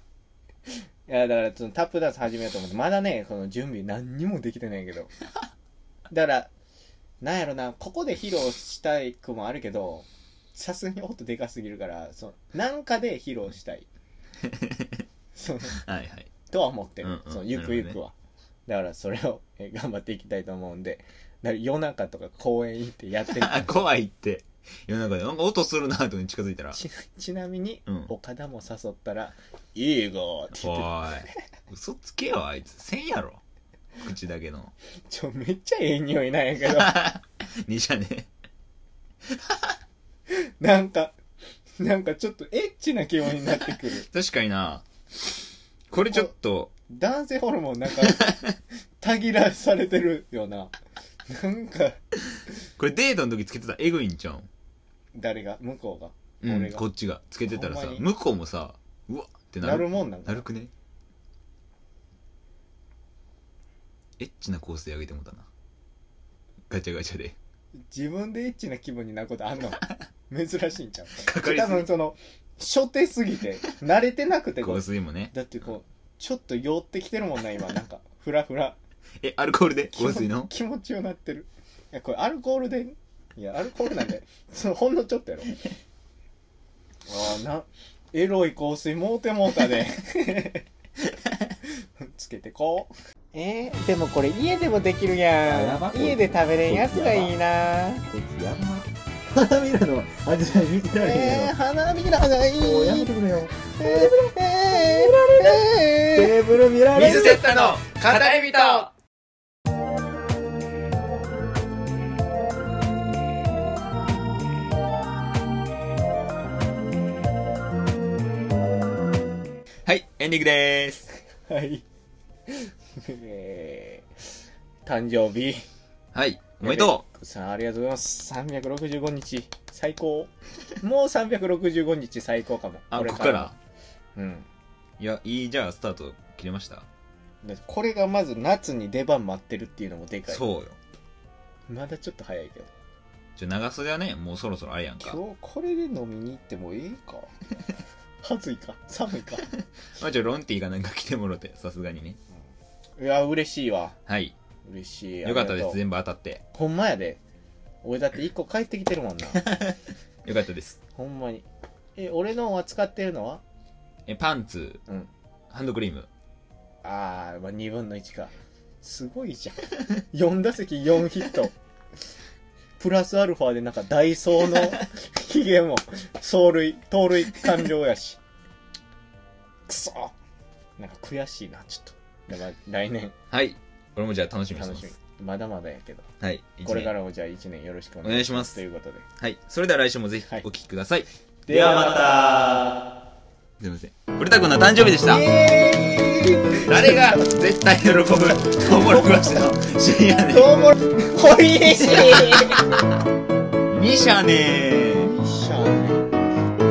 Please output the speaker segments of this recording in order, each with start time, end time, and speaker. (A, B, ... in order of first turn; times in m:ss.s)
0:00.7-0:05.1 A
0:06.1-0:06.5 A
0:07.2-0:13.9 A
0:14.4-0:15.0 B
0:15.3-0:15.8 A
0:15.7-0:16.3 B
0:16.5-0:18.1 A
0:17.0-0:18.0 B
0:18.6-0:23.8 A
0:23.3-0:26.8 B
0:26.7-0:30.9 A
0:27.9-0:28.1 B
0:30.5-0:33.4 B
0:34.0-0:34.7 B
0:35.1-0:37.0 A
0:36.6-0:38.3 B
0:39.3-0:39.7 B
0:40.3-0:41.2 A
0:41.8-0:44.1 A
0:44.0-0:44.8 B
0:45.9-0:46.7 B
0:46.9-0:48.2 A
0:48.0-0:48.6 B
0:49.0-0:50.7 A
0:51.2-0:52.0 A
0:52.8-0:54.5 B
0:55.1-0:56.8 A
0:56.4-1:00.7 B
0:57.4-0:58.0 A
0:59.6-1:00.4 A
1:04.2-1:05.5 B
1:06.7-1:07.4 B
1:07.9-1:18.8 A
1:11.2-1:11.9 B
1:14.6-1:15.3 B
1:19.2-1:20.5 B
1:19.9-1:25.6 A
1:27.1-1:30.6 A
1:31.6-1:38.0 A
1:35.4-1:37.4 C
1:38.1-1:41.5 C
1:40.9-1:43.1 A
1:42.6-1:47.8 C
1:43.8-1:46.4 A
1:47.0-1:48.9 B
1:47.0-1:48.9 A
1:59.8-2:01.1 B
2:01.5-2:01.8 A
2:02.5-2:04.1 A
2:04.8-2:05.6 A
2:06.1-2:07.0 B
2:06.6-2:13.5 A
2:12.9-2:13.6 B
2:14.1-2:14.5 A
2:15.0-2:16.9 B
2:17.4-2:20.4 A
2:20.3-2:20.8 B
2:21.7-2:22.7 A
2:23.4-2:25.2 B
2:25.0-2:27.3 A
2:28.2-2:29.4 A
2:29.9-2:32.2 B
2:33.0-2:34.0 A
2:34.1-2:34.3 B
2:34.6-2:35.8 A
2:35.2-2:36.4 B
2:36.5-2:37.2 A
2:37.8-2:39.4 A
2:39.3-2:40.8 B
2:40.9-2:43.4 A
2:44.1-2:44.8 B
2:45.5-2:46.1 B
2:46.8-2:51.5 A
2:52.8-2:58.2 A
2:59.7-3:00.1 A
3:00.8-3:03.1 A
3:03.3-3:04.9 B
3:04.5-3:06.1 A
3:06.2-3:06.9 B
3:06.6-3:09.0 A
3:08.0-3:08.6 B
3:09.2-3:12.7 B
3:11.5-3:12.1 A
3:13.6-3:15.3 B
3:15.0-3:17.2 A
3:16.5-3:20.7 B
3:18.8-3:19.2 A
3:20.3-3:22.8 A
3:21.8-3:22.8 B
3:23.7-3:25.1 B
3:24.9-3:26.1 A